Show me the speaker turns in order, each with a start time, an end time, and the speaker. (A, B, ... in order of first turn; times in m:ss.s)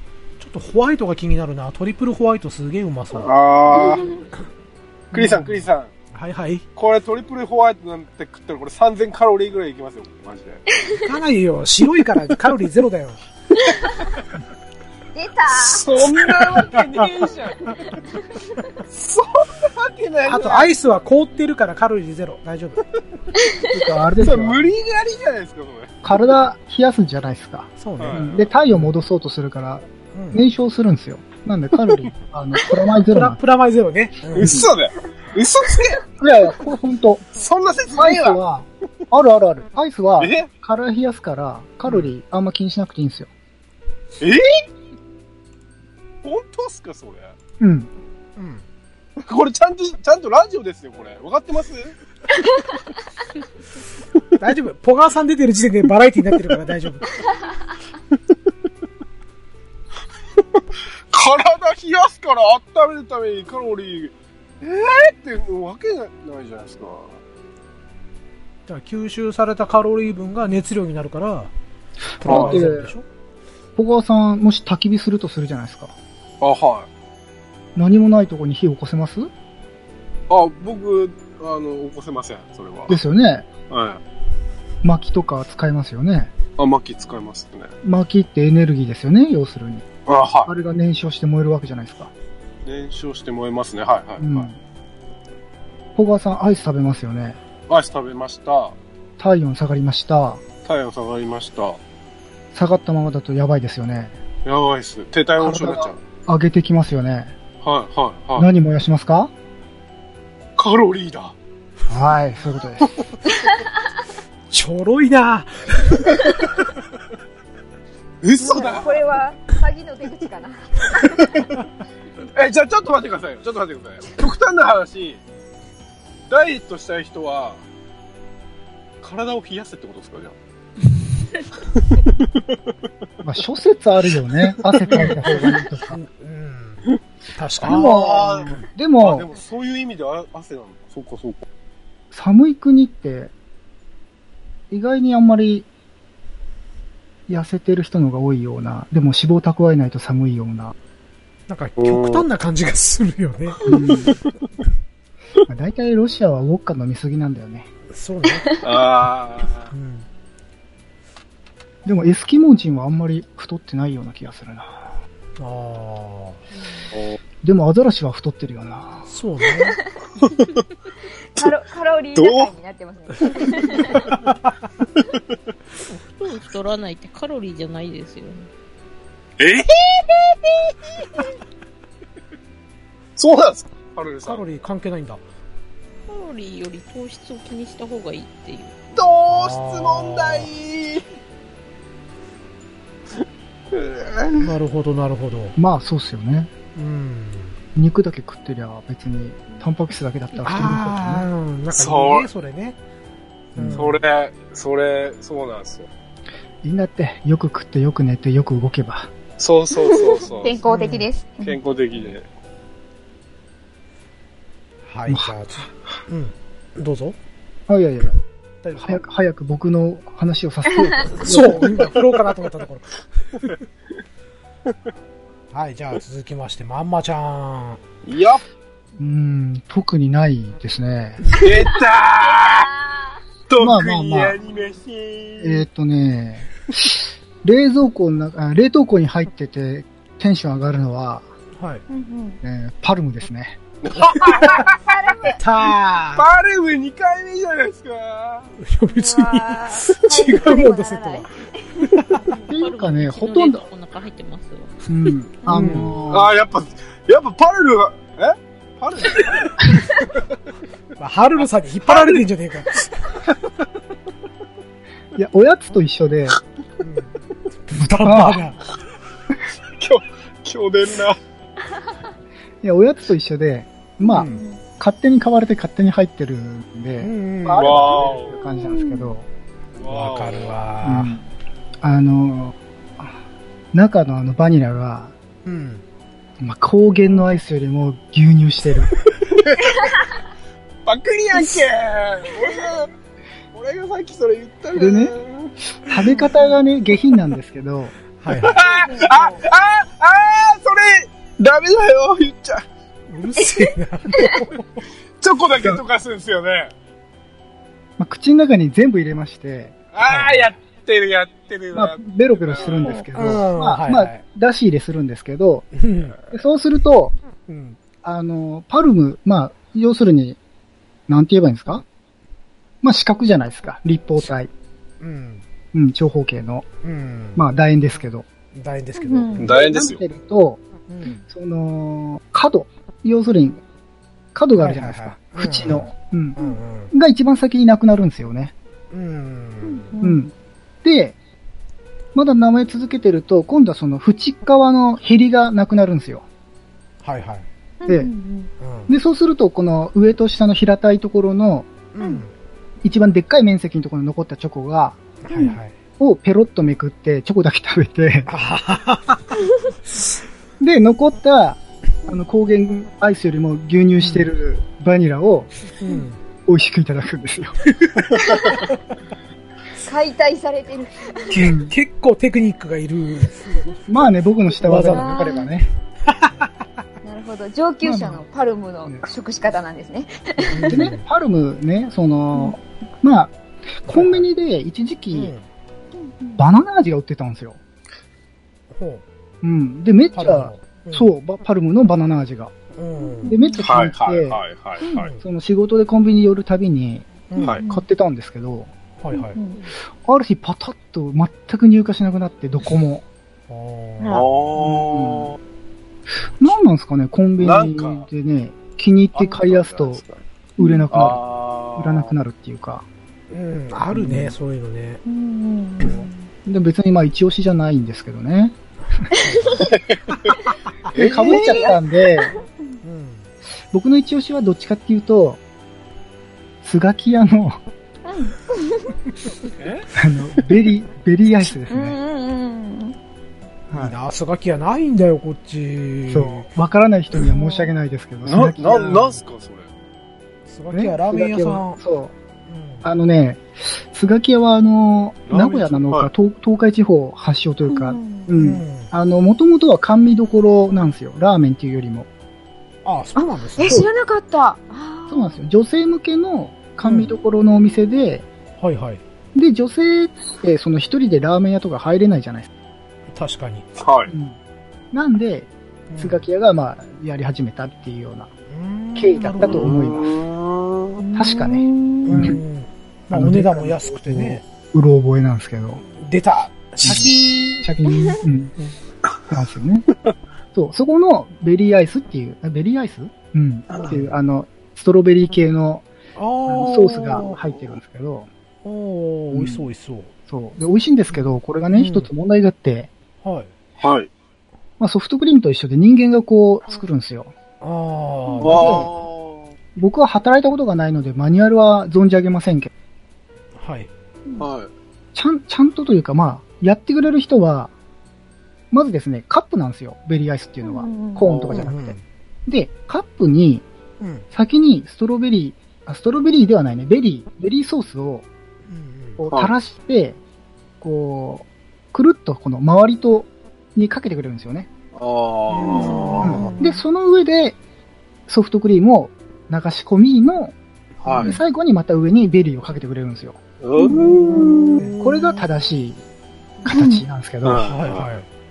0:00.4-0:03.3 A
0:03.1-0:04.2 B
0:03.7-0:04.2 C
0:03.9-0:04.3 D
0:05.1-0:05.9 B
0:05.1-0:06.7 A
0:06.8-0:10.6 B
0:11.0-0:13.2 A
0:15.2-0:16.0 C
0:15.6-0:17.7 B
0:16.6-0:17.0 A
0:18.9-0:20.7 B
0:20.2-0:22.8 A
0:23.4-0:23.8 C
0:23.7-0:24.7 E
0:24.2-0:26.0 B
0:26.0-0:33.4 E
0:27.8-0:28.9 A
0:28.0-0:28.4 B
0:30.1-0:30.4 A
0:33.1-0:34.7 A
0:34.3-0:36.0 B
0:34.4-0:34.7 E
0:36.2-0:37.3 E
0:37.3-0:38.4 B
0:38.0-0:43.3 E
0:40.2-0:40.5 B
0:41.9-0:42.1 A
0:44.2-0:44.5 B
0:46.2-0:47.4 B
0:47.6-0:47.9 E
0:48.4-0:48.6 A
0:49.2-0:51.9 B
0:54.4-0:57.1 A
1:01.1-1:07.2 B
1:08.7-1:11.5 A
1:12.2-1:13.1 A
1:12.2-1:12.9 E
1:12.3-1:12.7 B
1:13.8-1:15.9 E
1:16.4-1:16.9 B
1:17.8-1:19.3 E
1:20.3-1:23.0 B
1:22.9-1:23.5 E
1:23.7-1:24.0 B
1:24.8-1:26.3 E
1:26.6-1:27.7 B
1:27.8-1:29.9 E
1:30.1-1:30.5 B
1:30.5-1:32.1 E
1:32.6-1:34.5 B
1:34.2-1:34.6 E
1:36.0-1:37.4 E
1:37.7-1:38.8 B
1:39.2-1:40.4 E
1:40.6-1:41.8 B
1:42.5-1:44.2 E
1:44.4-1:46.0 B
1:45.4-1:47.4 E
1:47.6-1:48.5 B
1:48.4-1:49.3 E
1:50.6-1:51.4 B
1:51.9-1:52.9 E
1:54.5-1:56.2 A
1:58.2-1:59.1 B
1:58.4-2:01.4 C
2:02.3-2:05.2 B
2:06.3-2:07.6 B
2:09.0-2:10.4 B
2:11.8-2:12.4 B
2:13.2-2:16.0 E
2:15.0-2:18.6 A
2:17.6-2:19.3 E
2:17.6-2:21.4 B
2:22.1-2:23.3 E
2:24.7-2:25.7 E
2:27.3-2:30.8 E
2:31.5-2:33.8 A
2:31.8-2:32.2 B
2:33.7-2:34.1 E
2:33.7-2:34.2 B
2:35.5-2:37.7 E
2:37.9-2:38.5 A
2:38.4-2:38.6 C
2:38.6-2:39.7 B
2:39.7-2:40.1 A
2:41.8-2:45.0 E
2:45.4-2:46.4 A
2:46.6-2:46.9 D
2:47.4-2:49.1 E
2:49.1-2:49.8 A
2:50.2-2:50.7 B
2:51.4-2:54.2 C
2:52.2-2:52.5 B
2:54.2-2:54.6 A
2:55.9-2:58.5 D
2:59.4-3:00.8 B
3:03.2-3:04.4 B
3:04.2-3:05.2 A
3:06.1-3:08.8 D
3:08.9-3:11.1 B
3:09.3-3:10.5 A
3:13.2-3:14.6 B
3:14.4-3:15.6 A
3:15.6-3:16.5 E
3:16.8-3:17.6 A
3:17.8-3:21.3 E
3:20.4-3:22.8 A
3:21.7-3:22.3 B
3:23.6-3:24.0 A
3:23.6-3:23.9 E
3:23.8-3:25.9 B
3:26.6-3:29.1 E
3:29.4-3:30.6 B
3:29.8-3:31.6 C
3:30.7-3:31.1 A
3:31.4-3:32.3 B
3:34.9-3:37.2 A
3:35.1-3:35.4 E
3:37.7-3:38.2 E
3:38.6-3:39.0 A
3:38.8-3:41.9 E
3:41.1-3:43.5 A
3:45.5-3:47.8 A
3:48.0-3:48.4 B
3:49.0-3:51.3 E
3:51.3-3:52.7 B
3:53.5-3:55.6 B
3:53.6-3:54.4 E
3:55.4-4:01.3 E
4:01.6-4:01.8 A
4:01.9-4:02.4 C
4:02.4-4:03.6 E
4:03.8-4:05.1 B
4:04.2-4:04.6 A
4:04.3-4:05.4 C
4:05.3-4:06.3 A
4:06.2-4:08.6 B
4:08.6-4:11.3 A
4:08.9-4:11.9 C
4:11.9-4:12.2 A
4:12.3-4:14.7 D
4:12.5-4:13.6 E
4:14.9-4:16.3 E
4:15.4-4:15.8 C
4:15.5-4:16.0 A
4:16.1-4:19.8 B
4:21.0-4:23.2 A
4:21.9-4:22.2 B
4:25.2-4:26.4 E
4:26.8-4:28.6 A
4:27.8-4:28.4 E
4:29.8-4:31.2 B
4:32.6-4:39.3 E
4:34.0-4:34.4 A
4:34.2-4:34.6 C
4:37.0-4:38.1 A
4:37.6-4:38.4 B
4:38.5-4:39.1 C
4:39.8-4:40.6 B
4:39.9-4:41.2 A
4:40.8-4:41.2 E
4:41.8-4:43.1 E
4:43.7-4:45.1 E
4:45.4-4:45.8 A
4:46.4-4:49.0 E
4:50.9-4:52.9 B
4:53.5-4:55.6 B
4:54.8-4:55.1 E
4:55.8-4:57.9 E
4:58.2-4:58.6 A
4:58.4-5:02.7 B
4:58.6-4:59.4 C
5:03.1-5:04.8 A
5:05.2-5:06.7 B
5:08.0-5:09.8 E
5:09.9-5:13.0 B
5:10.0-5:10.5 A
5:11.7-5:15.7 E
5:13.1-5:14.2 A
5:15.8-5:16.2 A
5:16.3-5:17.1 E
5:17.5-5:17.8 A
5:18.0-5:20.4 E
5:21.1-5:21.8 E
5:22.8-5:24.5 E
5:25.0-5:25.4 A
5:25.7-5:26.7 E
5:26.8-5:27.4 A
5:27.4-5:28.2 E
5:28.5-5:29.5 A
5:29.0-5:29.6 C
5:29.4-5:30.0 B
5:29.4-5:33.6 E
5:30.9-5:31.2 A
5:34.4-5:36.4 E
5:34.6-5:36.9 A
5:36.9-5:38.5 E
5:38.9-5:39.9 A
5:39.6-5:40.2 C
5:40.0-5:40.3 E
5:40.8-5:41.2 E
5:42.2-5:46.2 E
5:47.0-5:47.5 A
5:47.8-5:48.5 C
5:48.6-5:48.9 A
5:48.9-5:51.7 E
5:51.9-5:52.3 A
5:52.8-5:55.0 E
5:55.2-5:55.8 A
5:55.3-5:55.6 C
5:56.0-5:58.3 E
5:58.3-5:59.4 A
6:00.6-6:05.5 E
6:04.0-6:04.3 A
6:05.8-6:06.2 A
6:06.5-6:07.8 E
6:08.3-6:08.6 C
6:09.8-6:11.4 C
6:11.3-6:13.8 A
6:11.3-6:11.7 E
6:13.9-6:15.7 E
6:14.6-6:15.3 A
6:14.9-6:15.5 C
6:16.1-6:16.5 A
6:17.0-6:20.8 C
6:17.8-6:18.2 E
6:20.4-6:21.0 A
6:20.6-6:25.3 E
6:23.9-6:24.3 A
6:25.1-6:25.5 A
6:26.0-6:26.4 C
6:26.4-6:27.6 E
6:28.7-6:29.0 A
6:29.4-6:32.5 E
6:30.1-6:31.1 A
6:32.7-6:33.4 A
6:33.0-6:33.6 C
6:33.2-6:34.4 E
6:33.6-6:35.1 B
6:34.9-6:35.2 A
6:35.2-6:38.7 E
6:37.3-6:37.6 A
6:37.4-6:37.6 B
6:37.4-6:37.8 C
6:39.0-6:39.4 A
6:39.1-6:39.6 C
6:40.0-6:43.0 E
6:43.5-6:44.3 A
6:44.0-6:44.3 C
6:44.1-6:45.4 B
6:44.6-6:45.3 E
6:46.2-6:46.6 A
6:46.4-6:50.0 E
6:47.4-6:48.1 B
6:49.1-6:50.2 B
6:50.6-6:52.8 E
6:50.6-6:50.9 C
6:50.9-6:52.1 B
6:53.3-6:55.0 A
6:53.9-6:54.4 E
6:55.0-6:56.2 C
6:55.8-6:58.6 E
6:59.1-6:59.7 A
6:59.6-7:00.0 B
7:00.9-7:01.8 B
7:00.9-7:02.4 E
7:01.1-7:02.5 C
7:02.8-7:03.3 A
7:03.7-7:05.4 E
7:06.6-7:07.6 E
7:08.0-7:09.0 C
7:09.6-7:09.9 B
7:10.0-7:12.0 E
7:11.7-7:13.0 C
7:13.7-7:14.0 E
7:13.7-7:16.5 A
7:16.1-7:19.2 E
7:17.2-7:17.7 C
7:18.2-7:19.7 B
7:20.5-7:21.8 A
7:20.7-7:22.1 E
7:22.5-7:22.9 A
7:22.8-7:32.1 E
7:25.3-7:26.1 B
7:27.7-7:28.3 C
7:28.4-7:28.9 A
7:32.8-7:33.9 A
7:33.2-7:35.4 C
7:35.1-7:38.3 E
7:36.8-7:37.2 A
7:38.6-7:39.0 A
7:39.4-7:42.5 E
7:43.1-7:43.7 A
7:43.8-7:44.1 B
7:44.1-7:44.4 E
7:44.9-7:48.3 E
7:45.9-7:46.3 A
7:48.5-7:49.8 A
7:49.0-7:50.2 E
7:49.5-7:51.0 B
7:51.0-7:52.3 C
7:51.2-7:52.4 E
7:52.0-7:54.4 A
7:53.1-7:55.8 E
7:56.0-7:57.7 A
7:56.8-7:58.5 E
7:57.9-7:58.2 C
7:59.3-7:59.9 E
8:00.5-8:05.9 E
8:03.7-8:04.1 A
8:06.2-8:07.5 A
8:06.5-8:08.3 E
8:08.6-8:10.1 A
8:09.3-8:09.7 E
8:10.3-8:12.9 E
8:11.1-8:12.1 A
8:13.2-8:13.5 A
8:13.8-8:14.1 B
8:14.8-8:17.3 E
8:17.6-8:18.9 A
8:18.4-8:19.5 B
8:18.5-8:18.9 E
8:19.8-8:22.7 E
8:23.6-8:23.9 A
8:24.4-8:24.7 B
8:25.2-8:27.7 E
8:28.7-8:33.7 E
8:30.6-8:31.2 C
8:31.2-8:31.7 B
8:31.5-8:32.0 A
8:34.0-8:34.3 A
8:34.3-8:38.3 E
8:38.7-8:39.2 A
8:39.2-8:40.2 E
8:40.8-8:44.7 E
8:44.9-8:46.5 B
8:45.5-8:46.6 A
8:45.7-8:46.8 C
8:46.2-8:47.6 E
8:48.3-8:50.6 E
8:51.0-8:51.4 A
8:51.0-8:51.4 B
8:51.2-8:53.4 E
8:53.6-8:54.9 B
8:53.8-8:55.4 C
8:54.8-8:55.2 A
8:55.0-8:56.0 E
8:56.6-8:57.0 C
8:56.7-8:57.7 E
8:57.4-8:58.1 B
8:57.6-8:58.3 A